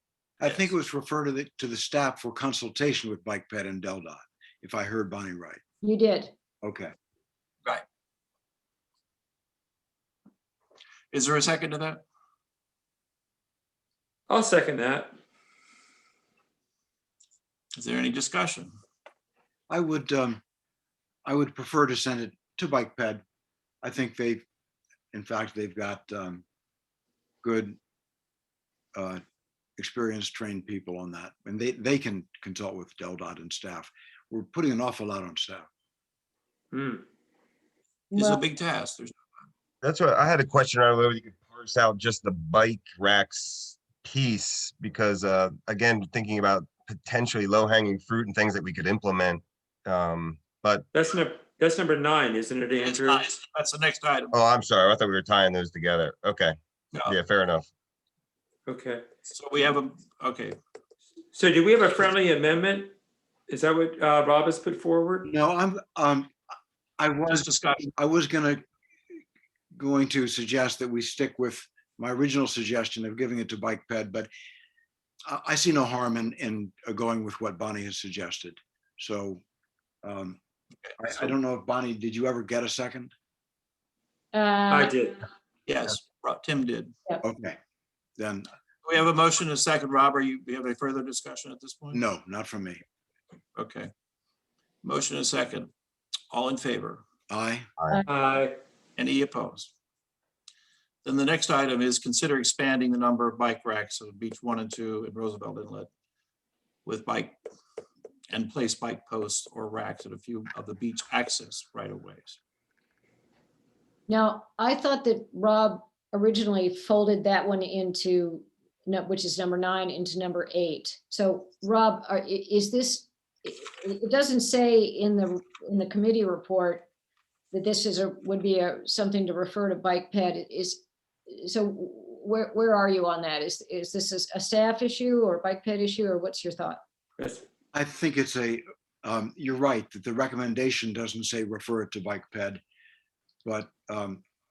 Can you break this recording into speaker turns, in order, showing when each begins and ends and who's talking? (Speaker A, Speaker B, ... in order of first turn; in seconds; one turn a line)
Speaker A: 0.4-5.6
Speaker B: 5.8-6.3
Speaker A: 6.6-6.9
Speaker C: 11.1-12.0
Speaker D: 14.3-15.1
Speaker C: 17.8-18.7
Speaker A: 19.7-20.4
Speaker A: 21.2-23.2
Speaker A: 23.8-24.4
Speaker A: 25.1-26.4
Speaker A: 27.4-27.8
Speaker A: 28.9-29.2
Speaker A: 29.8-35.6
Speaker D: 36.7-37.0
Speaker B: 38.1-38.4
Speaker C: 38.1-39.2
Speaker E: 39.8-50.9
Speaker D: 50.9-53.2
Speaker C: 52.8-54.3
Speaker E: 54.3-56.5
Speaker C: 56.9-57.2
Speaker E: 57.1-57.6
Speaker D: 58.7-59.0
Speaker C: 59.2-60.6
Speaker D: 61.3-62.9
Speaker D: 63.5-65.3
Speaker A: 65.2-66.3
Speaker A: 67.0-68.6
Speaker C: 67.4-67.9
Speaker A: 69.7-74.3
Speaker A: 75.2-79.4
Speaker A: 80.0-80.4
Speaker A: 81.0-83.1
Speaker B: 84.3-85.2
Speaker D: 84.7-85.2
Speaker C: 85.7-86.9
Speaker A: 87.2-87.6
Speaker A: 88.2-88.5
Speaker C: 88.8-92.0
Speaker A: 91.9-92.8
Speaker C: 93.5-93.9
Speaker C: 94.8-95.7
Speaker C: 96.3-97.0
Speaker A: 97.3-97.7
Speaker D: 98.1-98.5
Speaker C: 99.0-99.7
Speaker C: 101.0-105.9
Speaker C: 106.8-107.4
Speaker C: 108.3-112.4
Speaker B: 114.1-126.8
Speaker B: 127.5-136.8
Speaker D: 137.2-137.4
Speaker A: 137.7-142.6
Speaker A: 143.4-144.2